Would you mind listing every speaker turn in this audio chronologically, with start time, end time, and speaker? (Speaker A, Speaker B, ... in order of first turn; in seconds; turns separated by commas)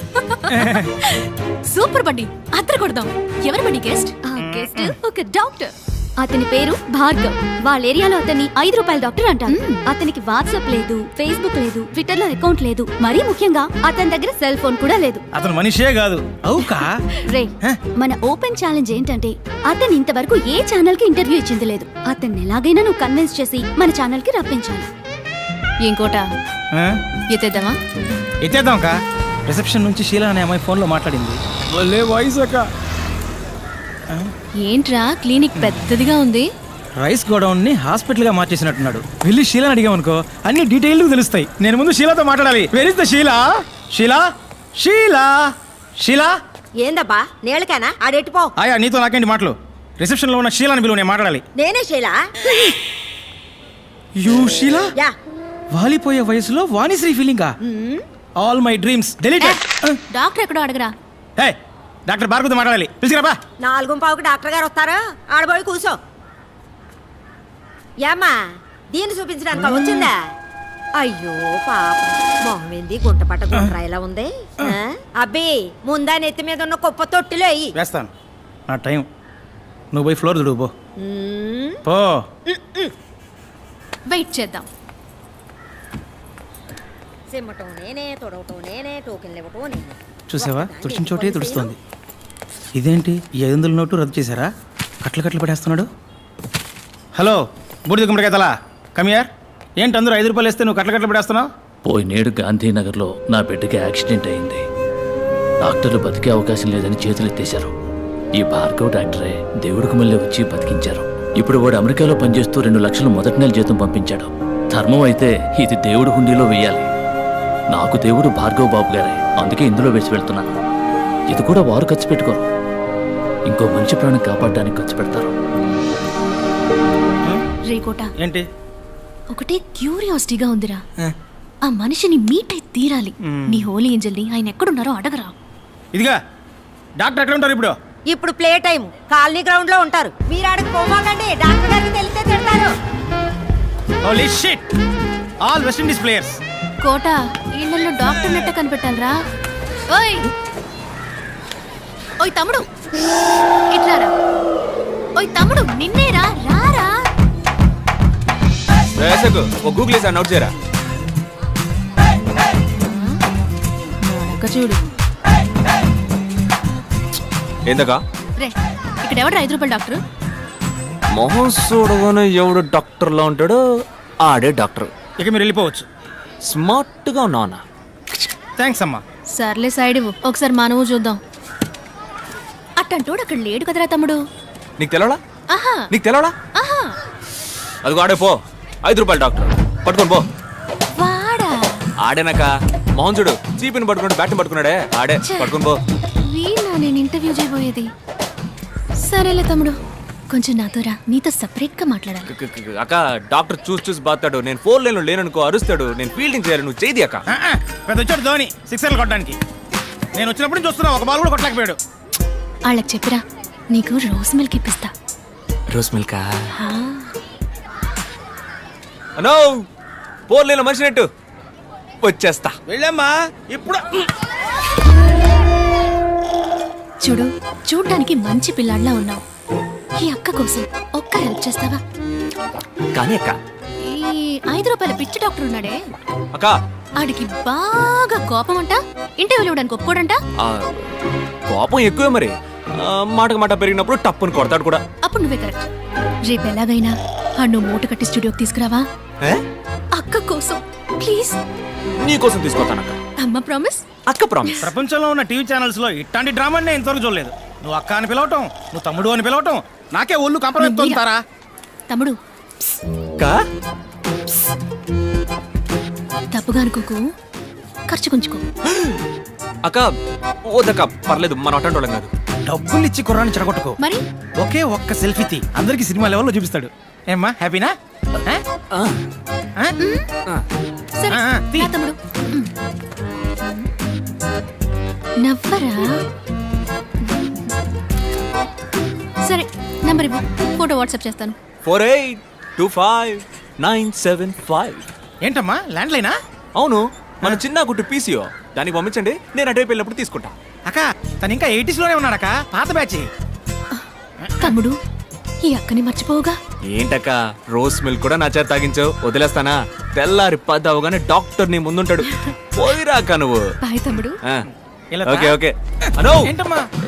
Speaker A: 0.2-4.2, Speaker B: 0.5-0.9, Speaker C: 4.2-15.2, Speaker B: 4.4-4.9, Speaker A: 9.5-9.8, Speaker B: 15.3-17.0, Speaker C: 17.3-24.9, Speaker A: 25.8-26.3, Speaker B: 26.7-27.0, Speaker A: 27.3-27.8, Speaker B: 28.4-28.9, Speaker B: 29.5-32.7, Speaker A: 34.6-36.5, Speaker B: 37.0-44.3, Speaker B: 44.8-46.4, Speaker D: 46.8-48.5, Speaker B: 48.6-51.4, Speaker D: 51.6-52.2, Speaker B: 54.1-54.9, Speaker B: 55.7-57.5, Speaker D: 57.6-58.0, Speaker B: 58.4-60.0, Speaker A: 59.4-60.9, Speaker B: 62.1-63.4, Speaker D: 63.6-66.0, Speaker D: 68.0-68.3, Speaker D: 68.9-70.2, Speaker B: 69.6-70.0, Speaker D: 71.0-77.8, Speaker B: 77.8-78.1, Speaker B: 78.7-79.1, Speaker B: 79.9-80.7, Speaker D: 81.0-81.8, Speaker B: 81.9-82.2, Speaker D: 82.5-82.9, Speaker A: 84.1-84.7, Speaker D: 87.3-91.7, Speaker B: 90.3-91.8, Speaker B: 92.8-94.5, Speaker B: 95.0-95.9, Speaker B: 97.2-99.3, Speaker B: 99.8-101.5, Speaker E: 101.8-104.6, Speaker E: 105.6-107.7, Speaker E: 108.4-116.9, Speaker E: 117.7-120.5, Speaker E: 121.3-122.4, Speaker E: 123.5-125.3, Speaker A: 127.7-128.1, Speaker B: 128.2-128.4, Speaker A: 129.3-130.8, Speaker A: 131.6-135.3, Speaker B: 133.2-133.6, Speaker B: 137.0-137.8, Speaker D: 138.1-142.7, Speaker B: 144.0-144.6, Speaker B: 145.4-146.4, Speaker A: 146.8-149.1, Speaker A: 149.9-150.3, Speaker A: 152.2-152.7, Speaker A: 153.7-154.1, Speaker A: 155.2-157.0, Speaker F: 159.0-160.5, Speaker A: 162.8-163.2, Speaker A: 164.0-164.8, Speaker F: 167.7-168.0, Speaker A: 168.4-170.0, Speaker F: 171.1-173.6, Speaker F: 174.2-174.9, Speaker B: 175.2-175.8, Speaker F: 176.4-177.6, Speaker B: 178.6-179.0, Speaker A: 179.3-181.2, Speaker A: 182.8-184.2, Speaker F: 184.8-185.2, Speaker A: 185.5-185.9, Speaker F: 185.9-186.3, Speaker A: 186.6-186.9, Speaker F: 187.8-190.2, Speaker A: 190.9-191.8, Speaker F: 192.0-195.8, Speaker A: 195.2-195.5, Speaker A: 196.2-197.9, Speaker A: 199.0-202.3, Speaker F: 202.3-207.2, Speaker B: 207.3-209.4, Speaker B: 210.1-211.8, Speaker A: 212.7-214.9, Speaker F: 215.7-216.4, Speaker A: 216.6-217.1, Speaker F: 219.2-219.5, Speaker F: 220.3-221.1, Speaker F: 222.0-222.6, Speaker B: 222.7-223.8, Speaker A: 227.0-229.2, Speaker A: 230.0-231.8, Speaker F: 232.9-233.4, Speaker A: 233.8-235.8, Speaker A: 237.0-240.2, Speaker F: 240.4-240.8, Speaker F: 241.5-244.8, Speaker A: 245.0-245.7, Speaker A: 246.2-248.8, Speaker A: 249.9-251.4, Speaker F: 252.0-253.0, Speaker A: 253.2-253.8, Speaker F: 254.1-254.7, Speaker B: 254.6-261.2, Speaker A: 260.6-261.0, Speaker A: 261.9-262.2, Speaker A: 266.3-267.0, Speaker A: 267.9-268.4, Speaker F: 270.5-272.1, Speaker B: 272.5-273.8, Speaker B: 274.4-277.7, Speaker A: 279.8-280.1, Speaker A: 281.0-282.5, Speaker B: 281.1-281.7, Speaker A: 283.4-283.7, Speaker A: 285.2-285.9, Speaker A: 287.1-287.5, Speaker A: 289.2-291.4, Speaker F: 291.6-294.8, Speaker B: 295.2-296.1, Speaker F: 296.6-300.3, Speaker B: 300.7-303.1, Speaker B: 304.2-304.5, Speaker A: 304.4-304.7, Speaker A: 305.4-306.4, Speaker F: 306.7-313.4, Speaker A: 313.6-314.2, Speaker B: 314.9-315.4, Speaker F: 315.1-316.3, Speaker B: 316.2-316.6